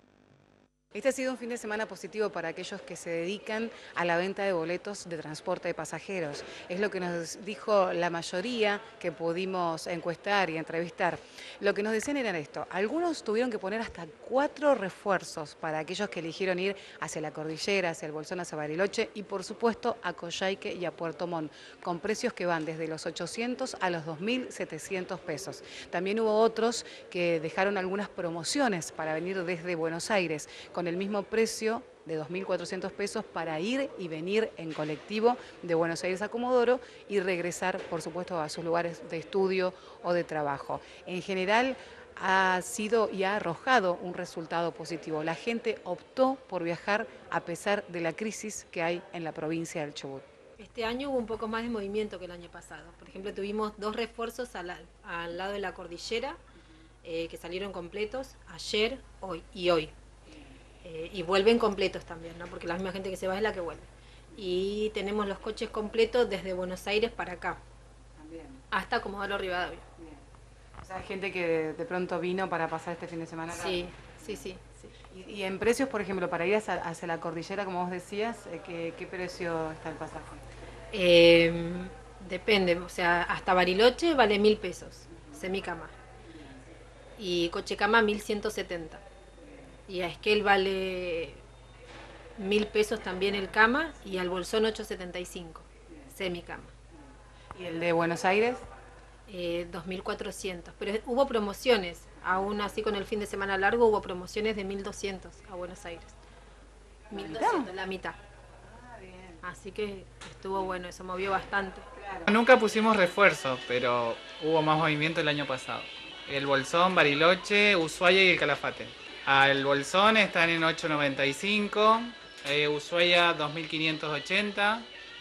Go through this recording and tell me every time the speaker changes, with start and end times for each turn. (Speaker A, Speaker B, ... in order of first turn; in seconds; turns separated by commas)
Speaker A: 0.9-50.2, Speaker B: 50.6-56.4, Speaker B: 57.0-59.9, Speaker B: 60.8-67.6, Speaker A: 68.2-68.6, Speaker B: 68.7-69.8, Speaker A: 70.8-74.1, Speaker B: 73.5-74.9, Speaker A: 75.1-80.4, Speaker B: 80.9-85.9, Speaker B: 87.2-89.0, Speaker B: 89.9-91.4, Speaker B: 92.4-96.7, Speaker A: 97.5-98.6, Speaker B: 99.3-106.2, Speaker B: 107.1-108.2, Speaker A: 107.2-107.7, Speaker A: 108.7-109.4, Speaker B: 109.4-111.9, Speaker A: 112.0-112.3, Speaker C: 112.3-124.9